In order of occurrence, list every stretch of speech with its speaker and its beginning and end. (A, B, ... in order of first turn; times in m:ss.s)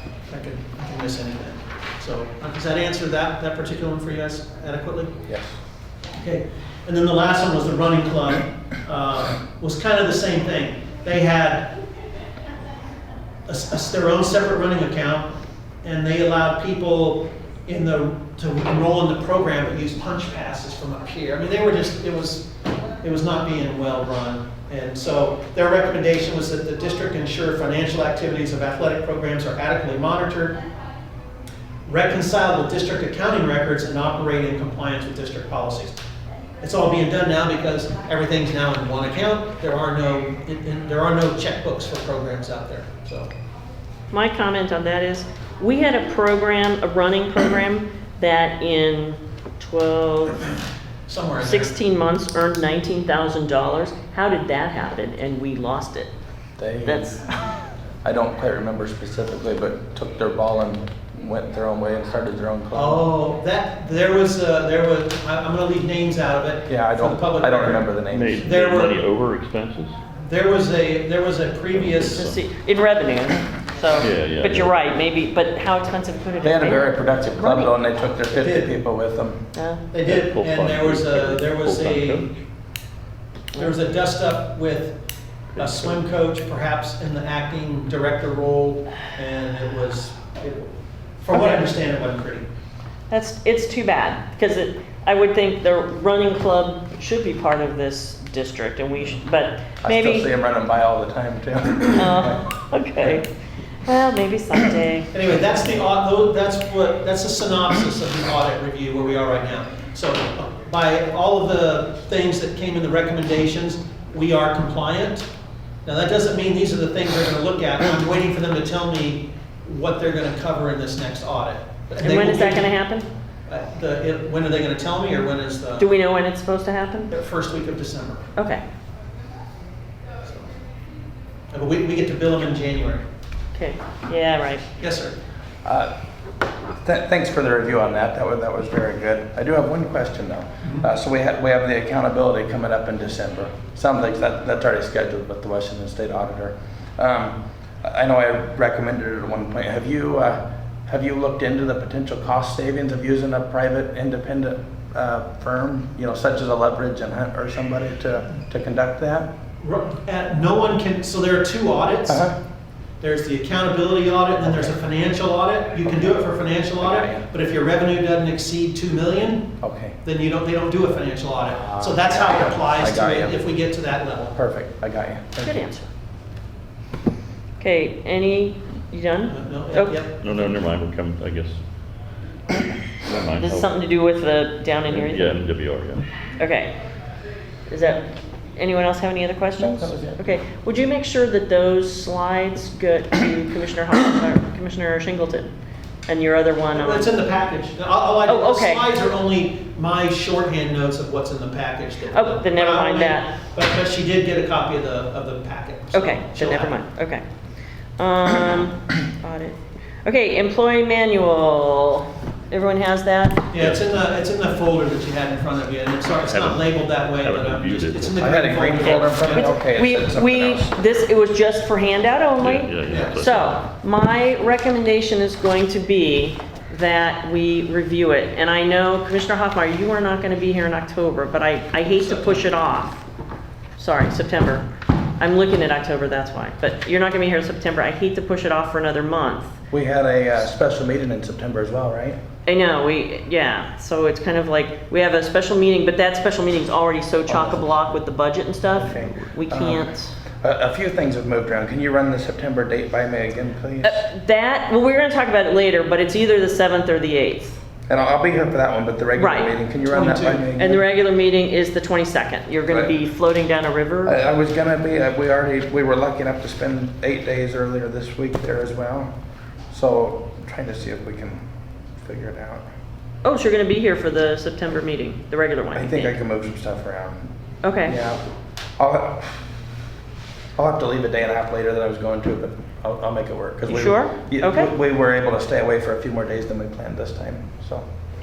0:00.3-0:05.1 A
0:05.3-0:05.6 B
0:06.1-0:11.8 A
0:13.5-0:15.3 A
0:15.8-0:22.5 A
0:23.0-0:30.6 A
0:31.8-0:36.0 A
0:36.6-0:43.3 A
0:44.1-0:50.5 C
0:51.1-0:51.7 A
0:51.4-0:56.1 C
0:56.6-0:57.2 B
0:56.9-0:57.3 C
0:58.0-1:03.1 B
1:02.7-1:09.0 A
1:06.7-1:08.5 B
1:08.1-1:10.0 D
1:10.2-1:12.2 A
1:11.7-1:12.4 D
1:12.1-1:17.8 C
1:14.0-1:14.8 D
1:16.4-1:19.5 B
1:18.4-1:18.7 A
1:19.6-1:19.8 C
1:19.9-1:22.3 A
1:20.0-1:22.4 D
1:23.5-1:25.0 A
1:25.5-1:26.0 D
1:25.6-1:32.4 A
1:31.3-1:31.6 C
1:33.1-1:40.3 C
1:39.8-1:42.5 B
1:41.9-1:43.3 C
1:43.9-1:45.1 C
1:45.1-1:55.3 A
1:55.8-2:02.7 A
2:02.0-2:03.1 C
2:03.5-2:05.9 A
2:05.8-2:07.1 C
2:07.1-2:08.3 A
2:08.4-2:08.6 C
2:10.2-2:10.5 A
2:11.5-2:13.0 A
2:13.5-2:14.6 C
2:14.8-2:15.2 A
2:15.6-2:15.9 B
2:16.8-2:39.3 B
2:39.6-2:42.2 A
2:42.1-2:42.4 B
2:43.0-2:49.5 A
2:45.8-2:47.2 B
2:49.6-2:50.0 B
2:50.0-2:54.4 A
2:51.6-2:53.4 B
2:54.3-2:55.6 B
2:55.4-2:55.9 C
2:57.6-3:00.0 C
2:59.3-3:00.1 A
3:00.2-3:01.6 D
3:02.9-3:03.7 D
3:03.4-3:05.3 C
3:04.8-3:06.1 D
3:06.4-3:06.7 C
3:07.7-3:15.5 C
3:09.6-3:10.2 B
3:16.1-3:17.1 C
3:16.7-3:26.8 A
3:18.2-3:18.9 C
3:22.1-3:23.3 C
3:25.9-3:27.2 C
3:28.0-3:33.5 C
3:33.5-3:39.5 A
3:36.2-3:38.3 D
3:38.2-3:40.7 B
3:38.7-3:53.0 C
3:42.4-3:43.6 D
3:42.8-3:43.2 A
3:52.0-3:52.4 A
3:53.8-3:54.6 C
3:55.2-3:59.5 C
3:59.7-4:02.2 B
4:02.5-4:10.1 C
4:07.3-4:07.8 B
4:08.7-4:09.9 B
4:10.4-4:14.1 B
4:13.8-4:17.6 C
4:17.9-4:20.8 B
4:19.1-4:19.6 C
4:19.9-4:20.5 A
4:20.6-4:24.2 C
4:22.7-4:22.9 B
4:24.0-4:29.1 B
4:29.7-4:31.4 B
4:32.0-4:32.6 B
4:33.2-4:36.1 C
4:35.7-4:37.3 B
4:37.6-4:38.0 C
4:37.8-4:38.2 B
4:38.8-4:39.5 B
4:40.6-4:47.9 B
4:43.6-4:44.7 C